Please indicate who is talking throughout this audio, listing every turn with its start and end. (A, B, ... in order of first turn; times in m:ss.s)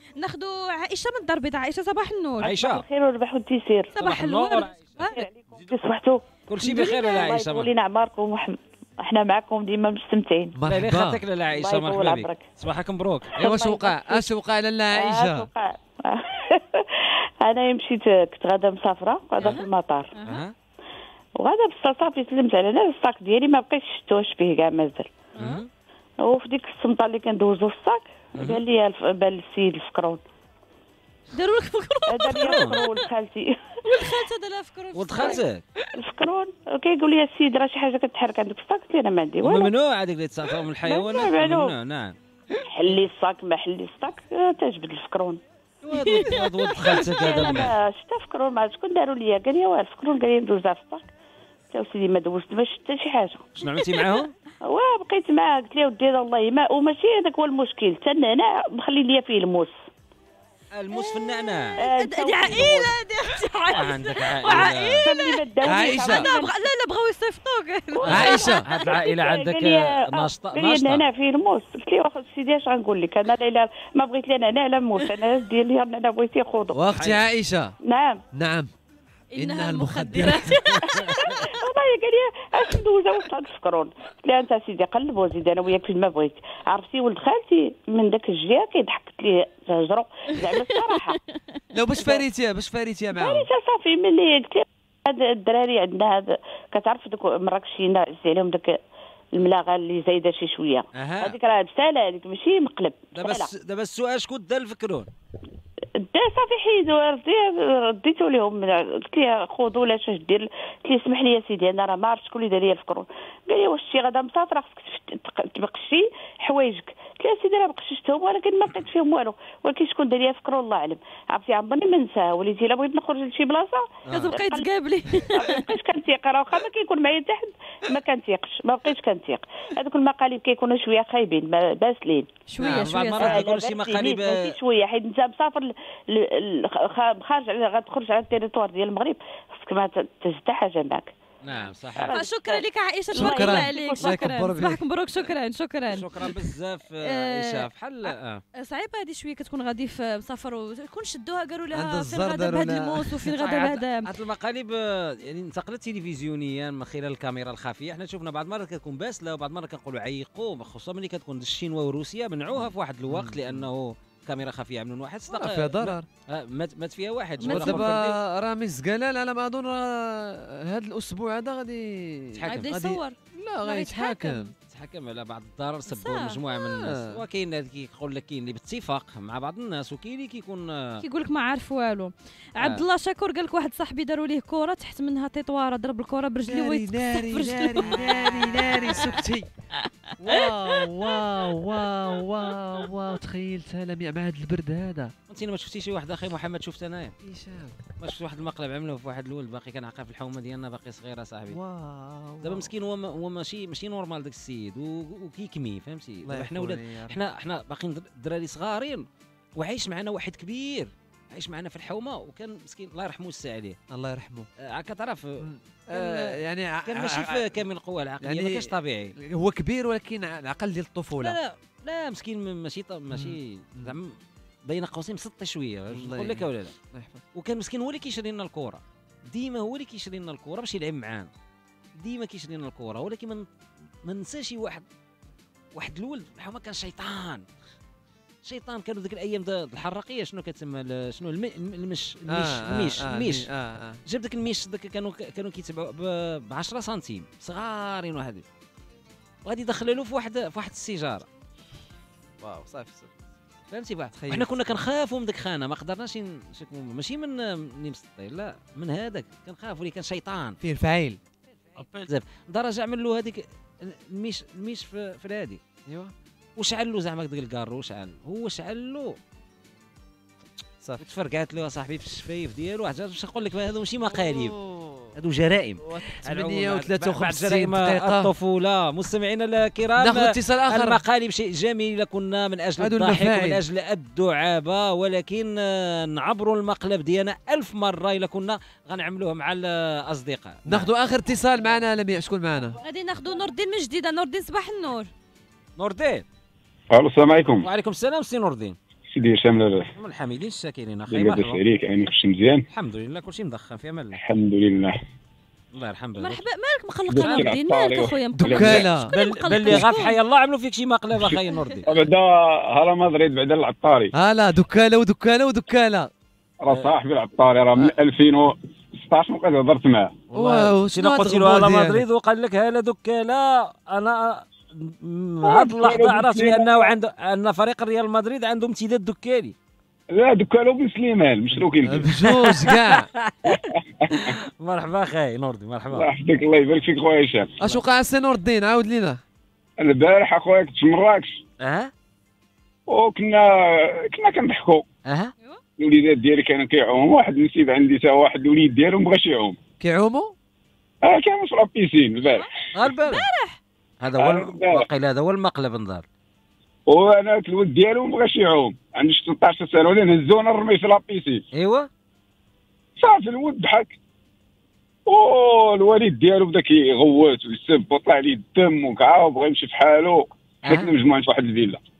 0:00.2-0:02.6 A
0:02.4-0:02.8 B
0:02.6-0:03.9 C
0:03.9-0:05.2 A
0:04.0-0:05.0 B
0:05.0-0:10.6 C
0:06.5-0:07.7 B
0:10.5-0:11.2 D
0:10.7-0:13.5 B
0:11.5-0:12.4 C
0:13.4-0:15.5 D
0:13.4-0:14.2 C
0:14.9-0:20.1 C
0:19.4-0:20.4 A
0:20.2-0:20.5 B
0:21.4-0:25.3 C
0:25.4-0:25.7 B
0:25.4-0:25.6 A
0:26.2-0:30.2 C
0:28.4-0:28.6 B
0:31.3-0:33.0 A
0:32.1-0:34.2 C
0:32.4-0:32.8 B
0:33.9-0:35.4 A
0:34.9-0:35.6 B
0:35.9-0:39.7 C
0:39.4-0:42.2 B
0:40.8-0:41.7 C
0:42.7-0:45.4 C
0:45.8-0:47.7 B
0:45.9-0:47.5 A
0:46.9-0:51.1 C
0:51.7-0:53.4 C
0:53.6-0:54.3 B
0:53.7-0:54.2 A
0:54.6-0:59.8 C
1:00.7-1:01.8 B
1:00.9-1:08.6 A
1:01.8-1:02.9 C
1:03.7-1:05.0 B
1:05.0-1:06.7 C
1:05.6-1:06.3 D
1:07.9-1:16.8 C
1:08.0-1:11.0 B
1:08.1-1:08.6 D
1:16.7-1:17.7 D
1:16.9-1:17.2 B
1:17.8-1:18.2 C
1:18.3-1:18.7 D
1:19.3-1:21.3 A
1:19.3-1:20.9 D
1:21.1-1:31.2 C
1:31.7-1:33.5 D
1:33.1-1:38.8 C
1:39.3-1:43.5 C
1:40.9-1:41.4 B
1:43.2-1:45.1 B
1:46.0-2:04.7 C
2:04.1-2:04.3 D
2:04.1-2:05.7 A
2:05.2-2:12.3 C
2:12.5-2:13.4 A
2:12.6-2:14.5 B
2:13.0-2:24.2 C
2:21.4-2:22.2 B
2:21.9-2:26.4 A
2:23.1-2:24.8 D
2:25.9-2:28.4 B
2:27.0-2:34.1 A
2:31.7-2:33.2 D
2:33.3-2:48.2 B
2:43.1-2:43.7 D
2:45.3-2:46.0 D
2:47.4-2:47.9 A
2:47.4-2:54.5 D
2:52.3-2:52.8 B
2:52.5-2:54.5 A
2:54.6-3:01.0 B
2:55.9-2:56.4 A
2:56.6-2:57.2 D
3:01.0-3:09.1 A
3:02.6-3:02.8 B
3:06.4-3:09.5 D
3:07.8-3:08.7 B
3:10.2-3:15.1 D
3:10.2-3:10.5 B
3:15.3-3:17.1 B
3:17.2-3:17.8 D
3:18.0-3:21.6 B
3:21.5-3:22.7 D
3:22.4-3:29.0 B
3:26.2-3:27.2 D
3:29.6-3:33.8 B
3:33.9-3:34.5 D
3:34.6-3:39.1 B
3:35.4-3:37.6 D
3:38.2-3:41.4 D
3:41.2-3:44.1 B
3:43.1-3:44.0 D
3:44.7-3:46.7 B
3:45.9-3:47.2 D
3:47.3-3:51.3 B
3:52.0-3:53.4 B
3:54.0-3:54.8 B
3:55.8-3:57.4 B
3:58.4-4:03.5 B
4:02.3-4:04.0 D
4:04.0-4:08.4 B
4:09.4-4:11.3 B
4:12.4-4:13.1 D
4:13.7-4:20.6 B
4:14.1-4:14.6 D
4:20.6-4:21.2 D
4:21.8-4:22.1 D
4:21.8-4:25.6 B
4:25.9-4:26.1 D
4:26.6-4:29.2 B
4:31.0-4:34.6 B
4:34.1-4:35.1 D
4:35.1-4:50.9 B
4:35.8-4:38.3 D
4:40.0-4:41.0 D
4:42.8-4:43.6 D
4:50.6-4:52.8 D
4:52.8-4:55.1 A
4:55.8-4:56.2 B
4:56.9-4:57.7 E
4:57.6-4:58.8 B
4:59.1-4:59.9 E
5:00.0-5:01.6 B
5:01.1-5:02.6 E
5:02.7-5:04.2 B
5:04.1-5:05.0 E
5:05.7-5:06.4 B
5:06.2-5:10.2 A
5:07.1-5:08.9 E
5:08.4-5:09.1 D
5:09.1-5:11.9 B
5:11.4-5:11.8 A
5:11.9-5:14.1 E
5:14.1-5:16.1 D
5:16.6-5:20.2 E
5:20.3-5:22.0 D
5:20.3-5:29.5 B
5:25.4-5:26.9 E
5:30.1-5:32.1 E
5:31.8-5:33.1 D
5:32.2-5:33.6 B
5:33.4-5:34.4 E
5:34.1-5:36.1 B
5:35.9-5:37.5 E
5:37.6-5:39.2 D
5:39.8-5:41.4 E
5:41.6-5:41.9 B
5:42.9-5:44.8 E
5:45.0-5:45.3 B
5:45.8-5:49.6 E
5:49.8-5:50.3 D
5:51.0-5:52.5 E
5:52.2-5:53.6 A
5:52.7-5:53.3 B
5:54.0-5:56.0 B
5:54.2-5:54.9 E
5:56.9-6:01.4 E
6:01.5-6:01.9 B
6:03.0-6:03.9 E
6:05.1-6:11.8 E
6:10.6-6:10.9 B